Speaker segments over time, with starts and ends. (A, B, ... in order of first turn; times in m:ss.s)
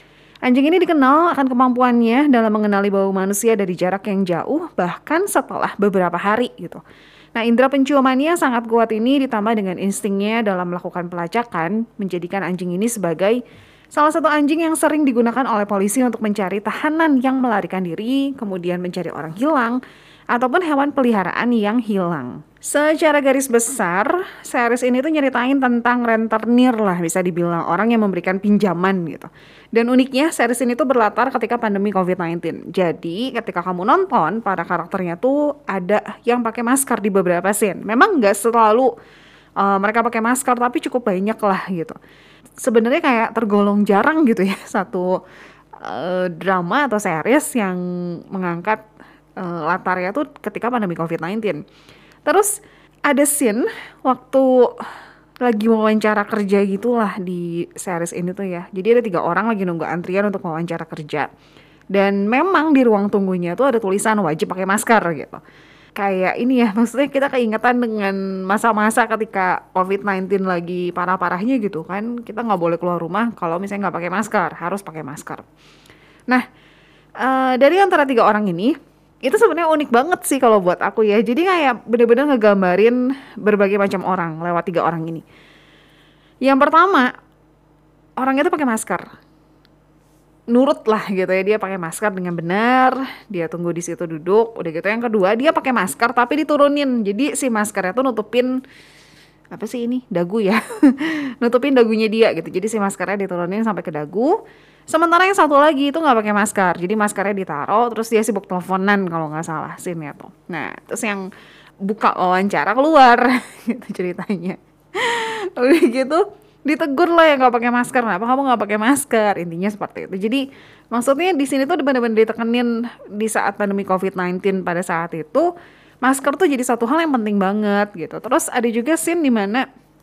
0:00.4-0:06.8 A
0:07.3-0:13.4 A
0:13.9-0:19.8 A
0:20.3-0:38.9 A
0:39.6-0:42.0 A
0:42.6-0:45.2 A
0:45.8-0:48.8 A
0:49.4-0:51.6 A
0:52.2-0:52.5 A
0:53.1-0:54.7 A
0:55.4-1:01.3 A
1:01.9-1:05.4 A
1:06.0-1:15.4 A
1:17.2-1:25.2 A
1:26.4-1:27.1 A
1:28.2-1:29.0 A
1:30.5-1:38.6 A
1:39.5-1:51.2 A
1:51.8-2:05.5 A
2:06.0-2:09.7 A